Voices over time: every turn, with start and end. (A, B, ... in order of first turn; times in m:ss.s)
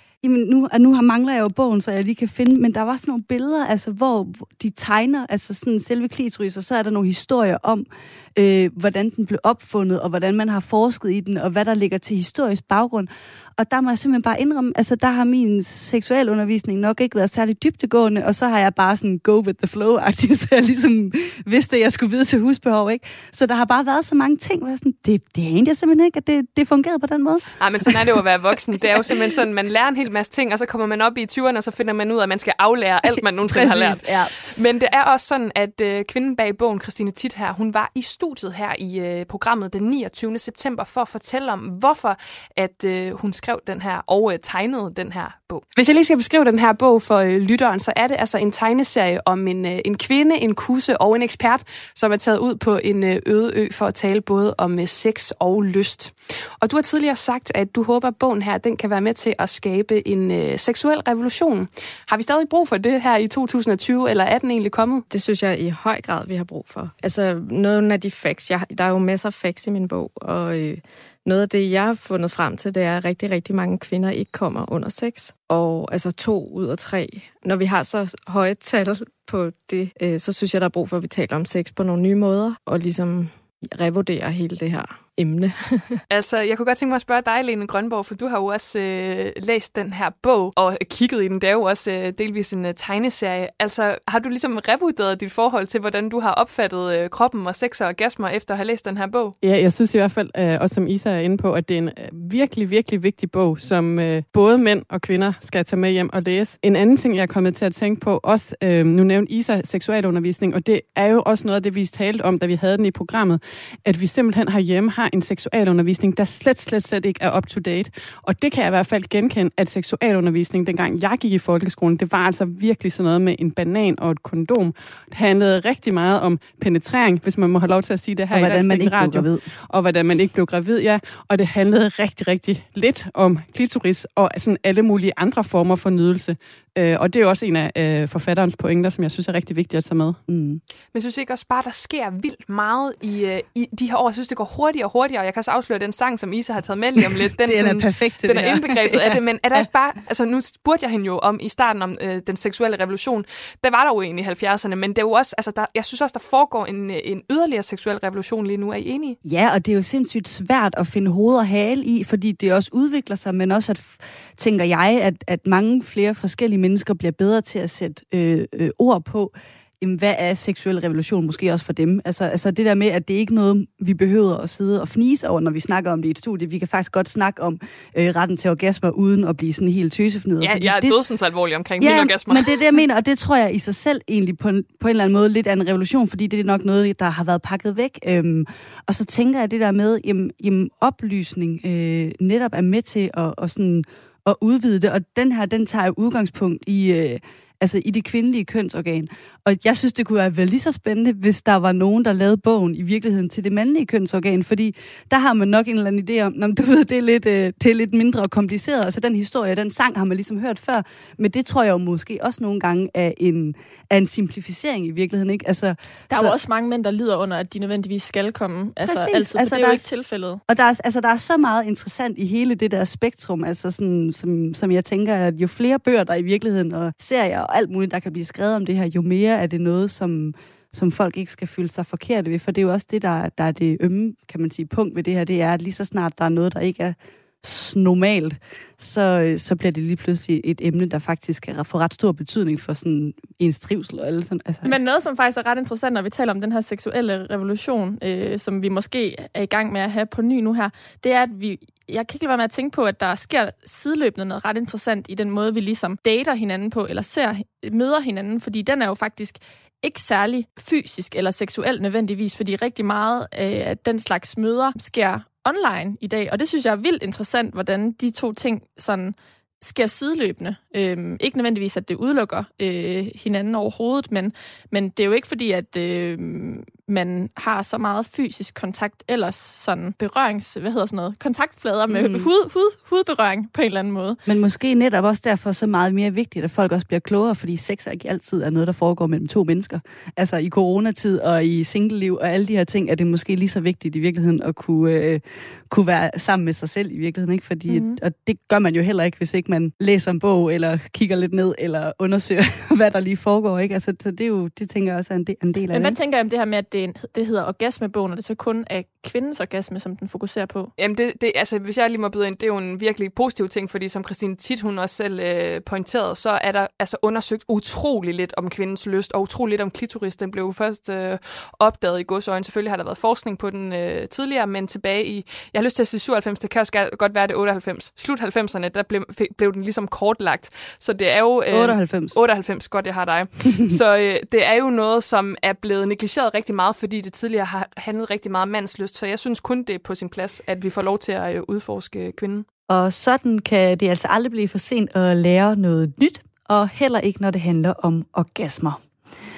0:00.2-0:28.2 A
0:27.6-1:05.0 B
0:33.0-0:34.5 A
1:05.1-1:26.0 C
1:26.1-1:39.4 B
1:39.4-2:20.2 D
2:08.3-2:09.4 A
2:20.3-2:20.6 A
2:20.9-2:39.2 B
2:27.0-2:29.7 A
2:39.2-3:01.0 A
3:00.4-3:02.6 B
3:01.8-3:36.4 A
3:36.1-3:40.4 E
3:38.8-3:39.8 A
3:40.5-4:04.8 A
4:04.6-4:44.2 E
4:41.9-4:42.3 A
4:44.3-5:06.0 A
4:57.7-4:58.0 E
5:05.7-5:10.7 E
5:10.8-5:42.5 B
5:31.5-5:32.2 A
5:42.7-5:48.8 A